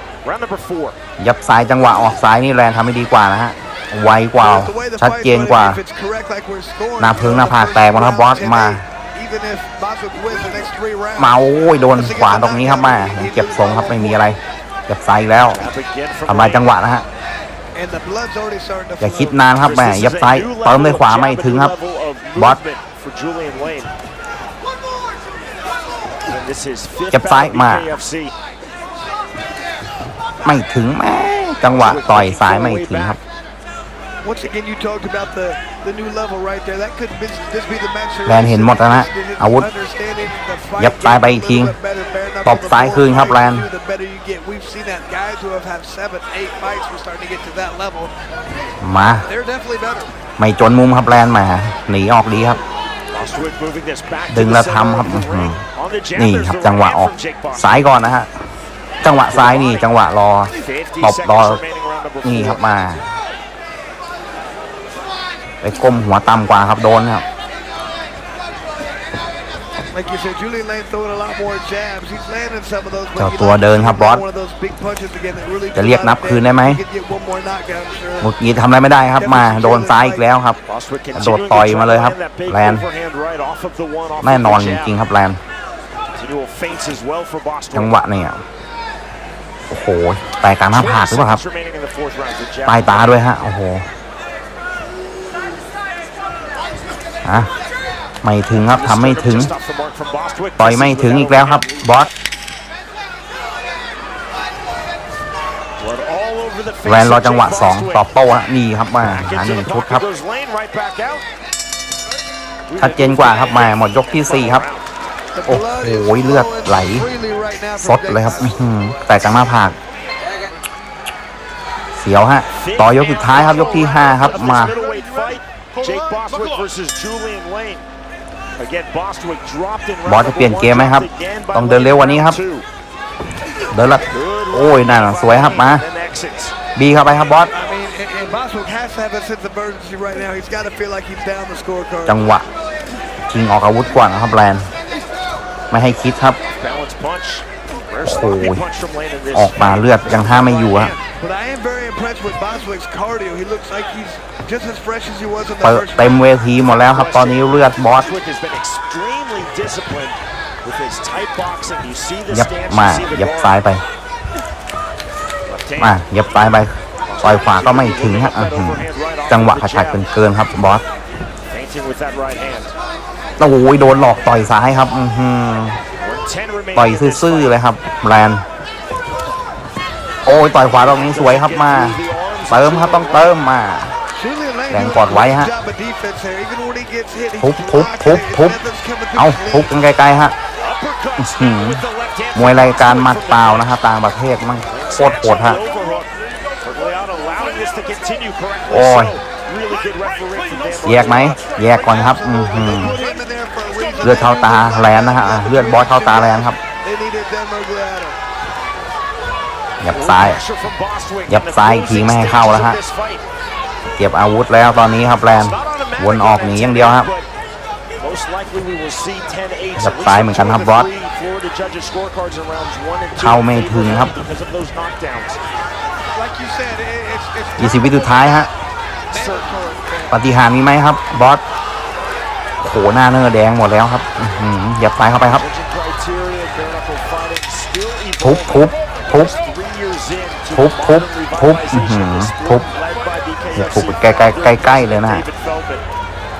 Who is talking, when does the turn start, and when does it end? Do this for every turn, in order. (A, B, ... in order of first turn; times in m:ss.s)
0:00.2-0:01.0 A
0:01.2-0:05.8 B
0:04.4-0:11.4 C
0:07.0-0:08.8 B
0:11.2-0:15.6 B
0:11.9-0:14.4 C
0:15.5-0:16.7 A
0:16.3-0:17.1 B
0:17.8-0:19.5 C
0:19.0-0:21.7 B
0:19.5-0:23.9 A
0:26.3-0:28.4 A
0:27.1-0:27.9 B
0:30.4-0:33.2 B
0:31.6-0:33.2 A
0:34.2-0:48.1 C
0:38.3-0:39.7 B
0:40.8-0:41.8 B
0:42.4-0:43.7 B
0:48.8-0:49.3 B
0:49.2-0:50.1 C
0:50.4-0:52.6 B
0:53.1-0:58.0 A
0:54.3-0:55.6 B
0:56.2-0:58.3 B
0:59.0-1:01.6 B
0:59.2-0:59.9 A
1:00.6-1:02.6 A
1:02.2-1:03.1 B
1:05.6-1:07.2 B
1:09.9-1:18.3 C
1:13.2-1:14.2 B
1:15.8-1:16.8 B
1:18.2-1:20.6 B
1:19.1-1:20.3 C
1:20.6-1:25.0 A
1:21.1-1:22.9 B
1:24.2-1:25.4 B
1:26.1-1:28.0 A
1:27.7-1:28.4 B
1:29.7-1:31.4 B
1:30.7-1:33.2 A
1:32.7-1:33.8 B
1:37.2-1:37.5 B
1:38.2-1:39.5 B
1:38.6-1:41.8 A
1:40.6-1:42.1 B
1:45.8-1:48.0 A
1:46.8-1:50.1 B
1:49.0-1:51.2 A
1:52.7-1:54.9 A
1:52.8-1:54.6 B
1:55.4-1:58.6 C
1:55.5-1:57.1 B
1:57.8-1:59.8 B
2:02.0-2:04.8 B
2:02.5-2:07.8 A
2:08.6-2:12.7 A
2:10.1-2:12.4 B
2:13.7-2:15.8 B
2:14.1-2:16.6 A
2:16.8-2:17.5 B
2:17.5-2:22.2 C
2:22.1-2:22.5 B
2:23.3-2:24.7 B
2:25.7-2:26.4 B
2:26.5-2:31.0 A
2:28.0-2:28.6 B
2:29.3-2:30.9 B
2:31.1-2:36.2 C
2:35.6-2:38.1 B
2:36.6-2:43.6 A
2:42.3-2:43.8 B
2:45.4-2:46.0 A
2:45.8-2:50.8 B
2:47.1-2:50.0 A
2:51.5-2:52.8 A
2:53.4-2:55.8 B
2:56.0-2:57.6 A
2:56.8-2:58.4 B
3:00.2-3:02.0 B
3:00.5-3:03.4 A
3:02.5-3:03.9 B
3:04.1-3:09.8 C
3:04.7-3:05.5 B
3:07.4-3:08.6 B
3:09.2-3:10.4 B
3:10.6-3:13.7 A
3:11.2-3:11.8 B
3:12.4-3:15.6 B
3:14.6-3:21.8 A
3:18.7-3:19.2 B
3:20.8-3:23.0 B
3:21.6-3:28.2 C
3:24.0-3:26.6 B
3:29.8-3:30.4 B
3:29.9-3:33.3 A
3:31.3-3:32.8 B
3:34.0-3:37.1 B
3:35.3-3:37.3 A
3:38.0-3:45.4 A
3:39.8-3:40.9 B
3:43.2-3:44.1 B
3:46.1-3:48.5 C
3:47.6-3:48.5 B
3:49.1-3:50.2 C
3:49.1-3:49.6 A
3:50.1-3:51.4 B
3:52.6-3:55.4 B
3:55.2-4:05.8 A
3:58.2-3:59.3 B
4:00.5-4:02.7 B
4:03.6-4:05.3 B